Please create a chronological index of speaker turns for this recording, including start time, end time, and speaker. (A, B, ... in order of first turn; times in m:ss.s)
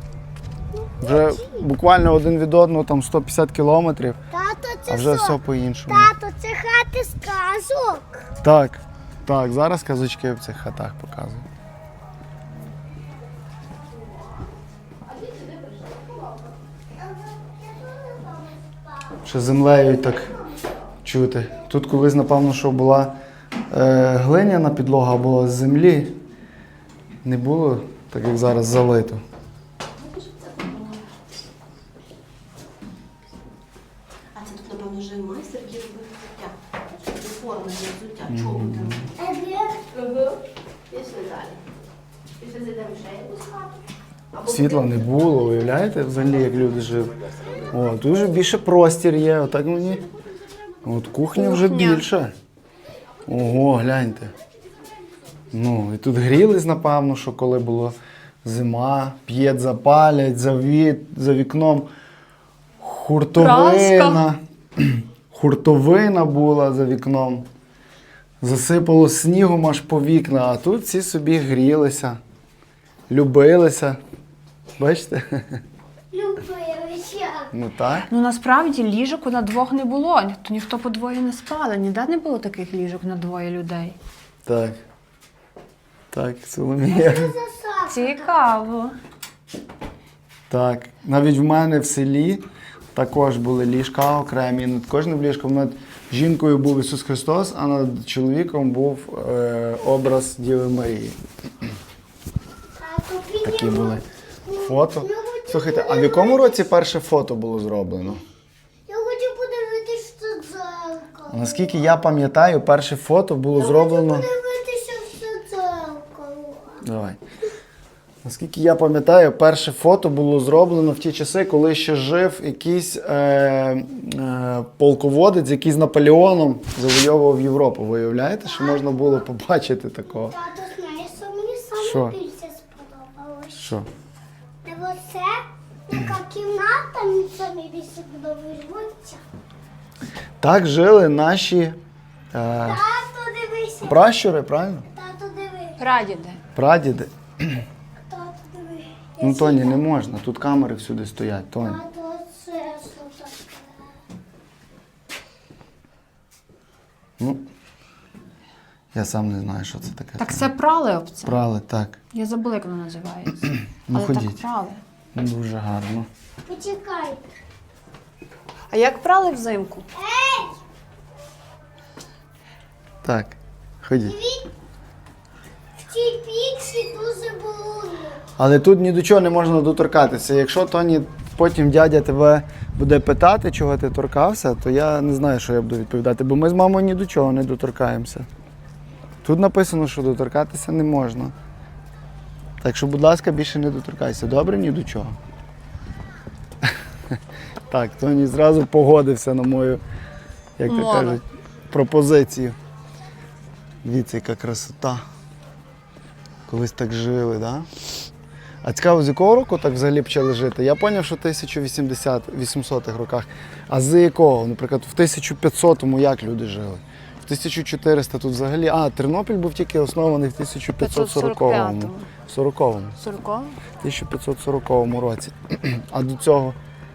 0:00.7-0:01.6 A
0:01.0-0:04.2 B
0:04.3-0:05.4 A
0:04.9-0:06.1 B
0:05.9-0:08.3 A
0:08.4-0:11.5 B
0:15.2-0:16.0 C
0:17.0-0:19.1 A
0:19.2-0:20.3 B
0:21.0-0:23.2 B
0:23.7-0:26.2 B
0:27.2-0:29.2 B
0:30.3-0:31.0 C
0:34.3-0:39.1 C
0:38.3-0:39.1 B
0:39.2-0:39.8 A
0:40.0-0:40.4 C
0:40.9-0:41.6 C
0:42.4-0:43.7 C
0:44.3-0:45.0 C
0:44.4-0:47.2 B
0:47.7-0:50.1 B
0:50.8-0:52.3 B
0:51.3-0:52.1 D
0:53.3-0:54.3 B
0:55.5-1:01.9 B
1:02.8-1:07.5 B
1:03.4-1:04.2 D
1:08.4-1:12.2 B
1:13.1-1:14.0 B
1:14.8-1:15.6 B
1:16.1-1:17.5 A
1:17.5-1:18.1 B
1:18.1-1:24.0 D
1:24.5-1:24.8 B
1:26.1-1:27.3 B
1:26.9-1:28.3 A
1:27.9-1:28.9 D
1:30.5-1:41.2 B
1:42.8-1:46.7 A
1:43.4-1:44.0 B
1:44.6-1:48.2 B
1:48.9-1:51.7 A
1:51.3-1:54.3 B
1:53.6-1:56.8 A
1:56.8-1:57.2 B
1:58.2-2:10.4 B
2:08.5-2:09.2 A
2:10.2-2:13.6 A
2:11.8-2:12.2 B
2:13.6-2:13.9 B
2:14.6-2:19.2 A
2:20.4-2:21.8 B
2:22.3-2:22.8 B
2:22.6-2:24.1 A
2:23.8-2:24.9 B
2:24.9-2:25.8 A
2:25.8-2:26.4 D
2:26.6-2:27.6 B
2:28.1-2:29.8 A
2:29.2-2:31.8 B
2:31.6-2:33.7 A
2:37.2-2:37.5 B
2:38.9-2:40.5 B
2:40.2-2:41.4 D
2:41.2-2:42.0 B
2:42.1-2:44.8 D
2:43.9-2:44.4 B
2:45.1-2:46.1 B
2:46.5-2:47.3 A
2:48.7-2:49.8 D
2:49.9-2:50.6 A
2:53.0-2:54.2 B
2:54.0-2:54.5 A
2:55.8-2:58.2 A
2:58.4-3:08.3 B
3:09.2-3:11.3 B
3:12.6-3:15.2 B
3:16.6-3:17.2 B
3:17.7-3:19.8 B
3:20.6-3:22.6 B
3:20.7-3:21.2 D
3:23.8-3:25.0 B
3:26.5-3:27.7 B
3:28.6-3:43.0 B
3:40.8-3:42.1 D
3:43.0-3:43.6 D
3:43.8-3:46.6 B